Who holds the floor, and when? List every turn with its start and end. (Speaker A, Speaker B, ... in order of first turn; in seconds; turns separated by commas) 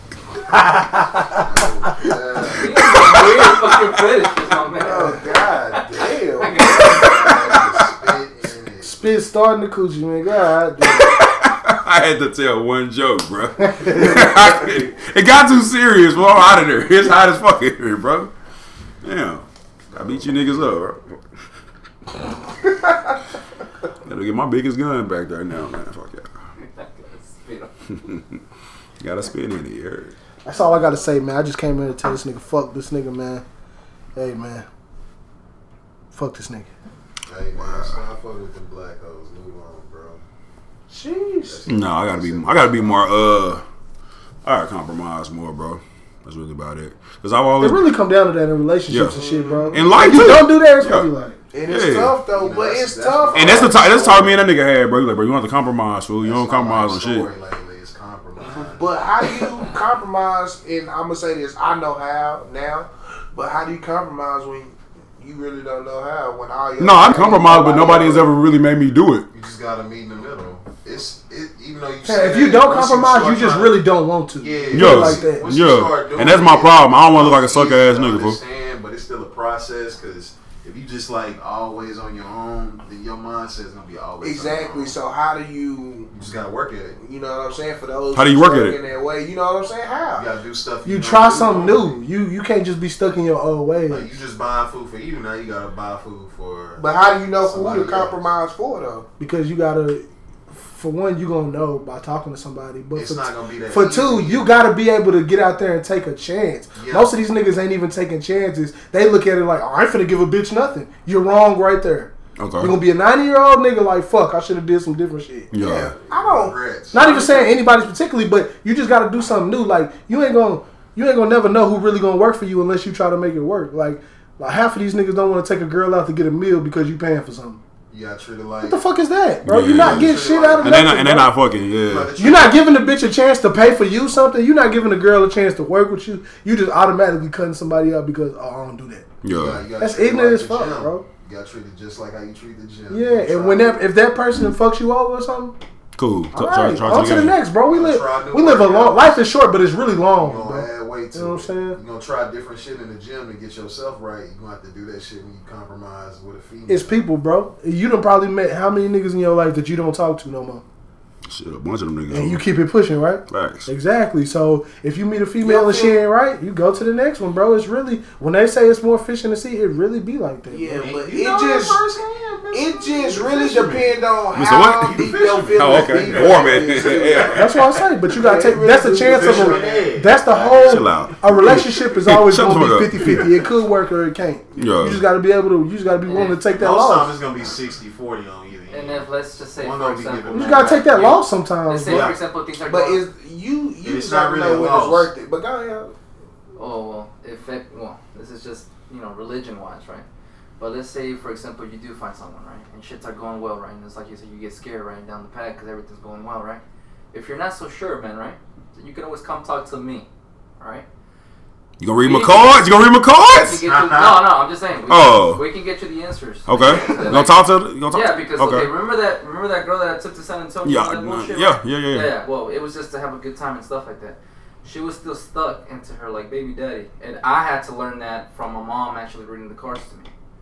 Speaker A: 0.5-2.1, Speaker B: 1.3-3.1, Speaker C: 2.5-5.3, Speaker D: 3.0-3.9, Speaker E: 4.7-7.1, Speaker C: 5.9-7.8, Speaker B: 6.6-8.9, Speaker A: 8.8-11.2, Speaker D: 10.8-18.3, Speaker A: 13.6-14.2, Speaker D: 19.0-21.2, Speaker B: 19.9-20.7, Speaker D: 24.1-26.3, Speaker C: 26.6-27.7, Speaker D: 28.0-28.3, Speaker D: 29.0-30.1, Speaker A: 30.4-33.4, Speaker A: 34.1-34.7, Speaker A: 36.1-36.7, Speaker B: 37.3-40.2, Speaker D: 37.5-38.0, Speaker E: 40.9-41.6, Speaker B: 41.5-43.0, Speaker D: 41.7-43.6, Speaker D: 44.5-47.9, Speaker A: 47.6-51.4, Speaker D: 48.9-49.2, Speaker E: 49.1-49.8, Speaker D: 49.7-51.1, Speaker E: 51.5-53.9, Speaker D: 51.7-52.2, Speaker B: 52.3-54.5, Speaker D: 53.3-57.3, Speaker B: 56.2-58.9, Speaker E: 58.7-68.3, Speaker D: 66.8-69.3, Speaker A: 67.6-68.2, Speaker B: 69.3-85.0, Speaker A: 72.0-75.5, Speaker D: 74.7-78.4, Speaker E: 84.2-86.1, Speaker B: 86.1-87.0, Speaker E: 87.0-90.3, Speaker D: 88.1-88.8, Speaker B: 90.1-92.0, Speaker A: 90.8-94.1, Speaker B: 93.9-96.9, Speaker E: 96.8-99.1, Speaker B: 97.4-98.2, Speaker A: 99.2-115.5, Speaker B: 103.0-104.6, Speaker B: 106.7-107.1, Speaker D: 112.4-112.8, Speaker D: 115.5-115.9, Speaker E: 115.6-117.5, Speaker B: 116.0-117.0, Speaker A: 116.9-127.6, Speaker B: 127.9-128.8, Speaker A: 128.6-131.3, Speaker D: 129.4-132.1, Speaker B: 129.6-131.1, Speaker B: 131.7-132.6, Speaker A: 132.1-139.1, Speaker D: 139.2-139.7, Speaker B: 139.3-143.8, Speaker A: 139.8-141.1, Speaker A: 142.9-145.6, Speaker D: 146.0-147.4, Speaker A: 146.3-151.8, Speaker B: 147.7-149.3, Speaker B: 150.1-157.0, Speaker A: 156.7-160.6, Speaker D: 161.3-162.4, Speaker A: 162.1-170.9, Speaker D: 163.3-163.7, Speaker E: 165.4-166.0, Speaker E: 170.5-171.8, Speaker B: 170.8-174.0, Speaker E: 172.5-177.4, Speaker D: 174.3-177.7, Speaker B: 174.8-177.3, Speaker A: 177.3-187.2, Speaker E: 178.1-179.9, Speaker B: 179.0-181.5, Speaker D: 180.6-183.3, Speaker B: 183.0-183.3, Speaker D: 184.6-185.0, Speaker C: 186.1-186.4, Speaker B: 186.5-190.9, Speaker C: 188.7-193.0, Speaker A: 190.3-192.1, Speaker B: 191.8-192.2, Speaker E: 192.7-195.9, Speaker B: 193.8-195.1, Speaker C: 196.6-200.1, Speaker C: 200.6-206.6, Speaker C: 207.1-210.1, Speaker C: 210.6-210.9, Speaker D: 211.8-213.6, Speaker C: 212.0-212.7, Speaker C: 213.3-230.1, Speaker B: 213.5-214.3, Speaker D: 214.9-215.4, Speaker D: 216.5-218.7, Speaker D: 220.6-222.1